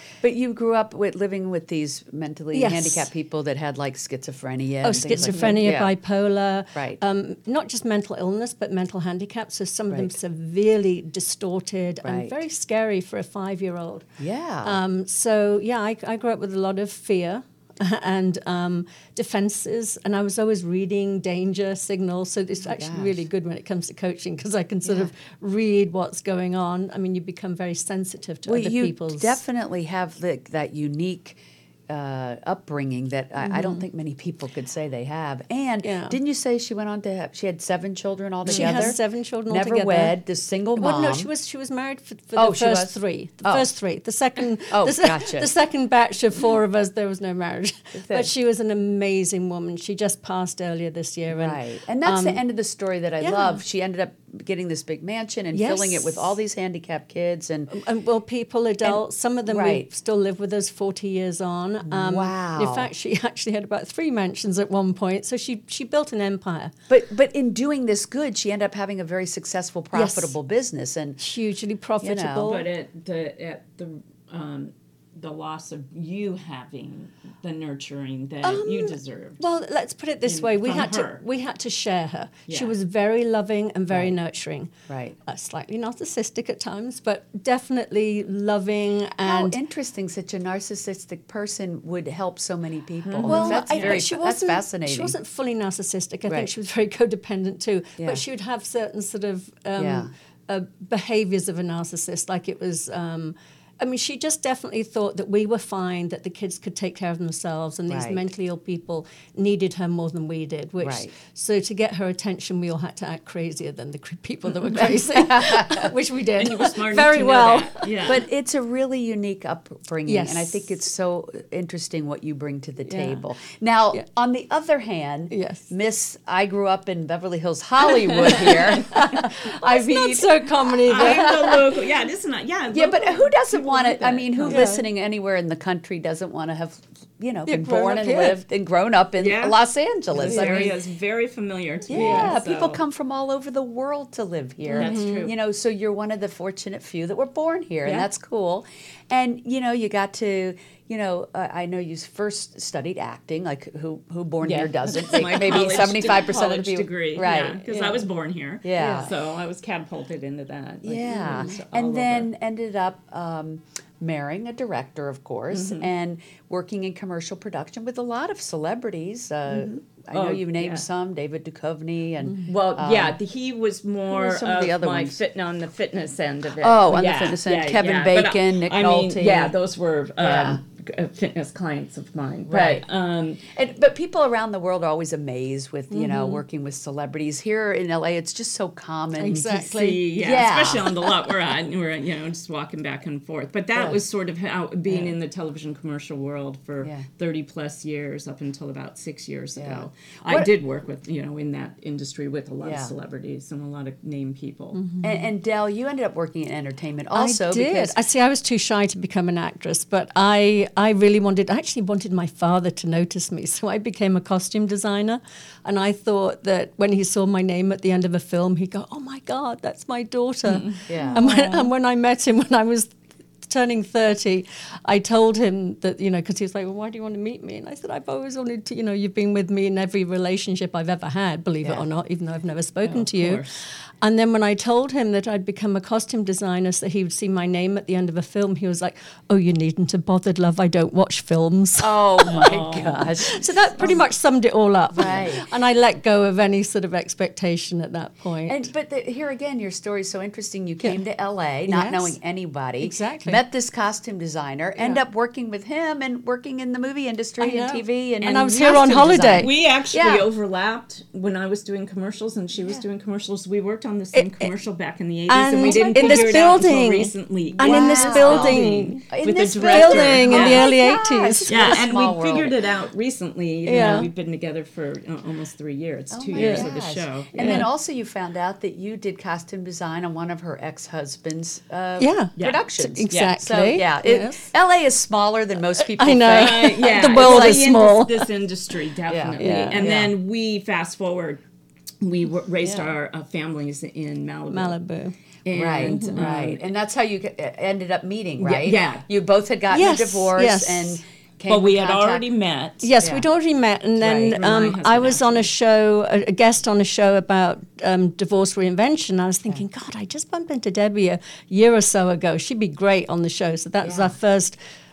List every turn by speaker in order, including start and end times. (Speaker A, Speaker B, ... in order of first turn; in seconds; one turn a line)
Speaker A: 0.2-5.9
Speaker B: 2.5-3.1
Speaker B: 4.8-14.1
Speaker C: 5.1-5.6
Speaker A: 6.7-7.0
Speaker A: 12.0-12.4
Speaker A: 14.2-14.8
Speaker B: 14.6-29.4
Speaker A: 22.6-23.3
Speaker A: 24.9-25.1
Speaker A: 28.5-41.3
Speaker B: 33.4-33.9
Speaker B: 35.8-36.2
Speaker B: 38.5-40.2
Speaker C: 38.5-38.9
Speaker B: 40.8-52.4
Speaker A: 42.4-43.7
Speaker A: 44.7-45.5
Speaker A: 48.0-48.3
Speaker A: 51.3-57.7
Speaker B: 53.2-53.6
Speaker B: 55.5-56.3
Speaker B: 57.7-66.7
Speaker A: 58.8-59.9
Speaker A: 61.9-62.9
Speaker A: 66.9-71.2
Speaker B: 69.9-70.3
Speaker B: 71.2-72.7
Speaker A: 72.0-72.6
Speaker C: 72.4-79.4
Speaker B: 78.4-84.7
Speaker C: 80.2-81.2
Speaker C: 82.5-82.7
Speaker A: 84.9-85.2
Speaker B: 85.3-89.6
Speaker A: 89.2-95.2
Speaker C: 93.0-94.0
Speaker B: 93.2-117.9
Speaker A: 99.8-100.1
Speaker A: 107.9-108.3
Speaker A: 110.8-111.1
Speaker A: 114.7-115.9
Speaker C: 116.4-118.2
Speaker A: 118.0-131.7
Speaker B: 120.1-120.6
Speaker B: 122.9-123.2
Speaker B: 125.3-125.7
Speaker B: 128.1-131.6
Speaker C: 128.2-129.0
Speaker C: 130.9-134.7
Speaker A: 132.7-140.8
Speaker B: 134.5-134.9
Speaker B: 137.5-138.4
Speaker C: 139.2-139.6
Speaker C: 140.1-142.8
Speaker B: 140.2-140.7
Speaker A: 141.9-157.6
Speaker B: 141.9-142.4
Speaker C: 144.7-145.3
Speaker B: 144.7-145.3
Speaker C: 154.4-162.3
Speaker B: 157.7-158.1
Speaker A: 158.6-159.1
Speaker B: 158.8-159.1
Speaker A: 160.8-173.2
Speaker B: 161.3-161.6
Speaker C: 165.5-165.9
Speaker C: 169.5-170.9
Speaker C: 172.5-183.5
Speaker A: 174.1-175.2
Speaker A: 176.6-179.6
Speaker A: 180.2-180.6
Speaker A: 182.5-182.8
Speaker A: 183.5-191.0
Speaker B: 185.9-186.4
Speaker B: 189.2-190.0
Speaker C: 189.6-204.8
Speaker A: 194.9-195.2
Speaker A: 199.6-200.5
Speaker A: 202.6-202.9
Speaker B: 204.8-205.3
Speaker A: 205.0-208.0
Speaker B: 207.1-233.4
Speaker C: 220.4-221.7
Speaker A: 220.9-221.3
Speaker C: 232.8-233.6
Speaker B: 234.0-242.6
Speaker A: 241.8-244.0
Speaker C: 242.2-243.2
Speaker B: 243.2-248.7
Speaker A: 244.9-245.5
Speaker C: 245.0-245.3
Speaker A: 248.5-260.3
Speaker B: 251.7-252.2
Speaker B: 252.8-253.4
Speaker B: 257.4-259.5
Speaker C: 259.4-270.7
Speaker B: 264.1-264.5
Speaker B: 265.3-269.1
Speaker A: 265.6-266.7
Speaker A: 267.6-272.6
Speaker B: 269.6-271.8
Speaker C: 271.5-277.6
Speaker B: 273.7-274.1
Speaker A: 276.1-287.8
Speaker B: 276.4-276.7
Speaker B: 277.4-277.7
Speaker B: 282.0-284.5
Speaker C: 282.4-283.4
Speaker B: 285.8-288.3
Speaker C: 286.3-291.4
Speaker A: 289.1-290.1
Speaker B: 289.4-289.9
Speaker C: 292.0-294.8
Speaker B: 292.6-292.9
Speaker B: 294.5-295.1
Speaker C: 295.4-296.6
Speaker A: 295.5-302.3
Speaker B: 295.9-296.3
Speaker C: 298.4-299.1
Speaker B: 299.7-301.0
Speaker C: 301.5-302.9
Speaker B: 302.8-314.6
Speaker A: 303.0-303.3
Speaker A: 304.0-304.4
Speaker C: 304.3-305.5
Speaker A: 313.8-314.2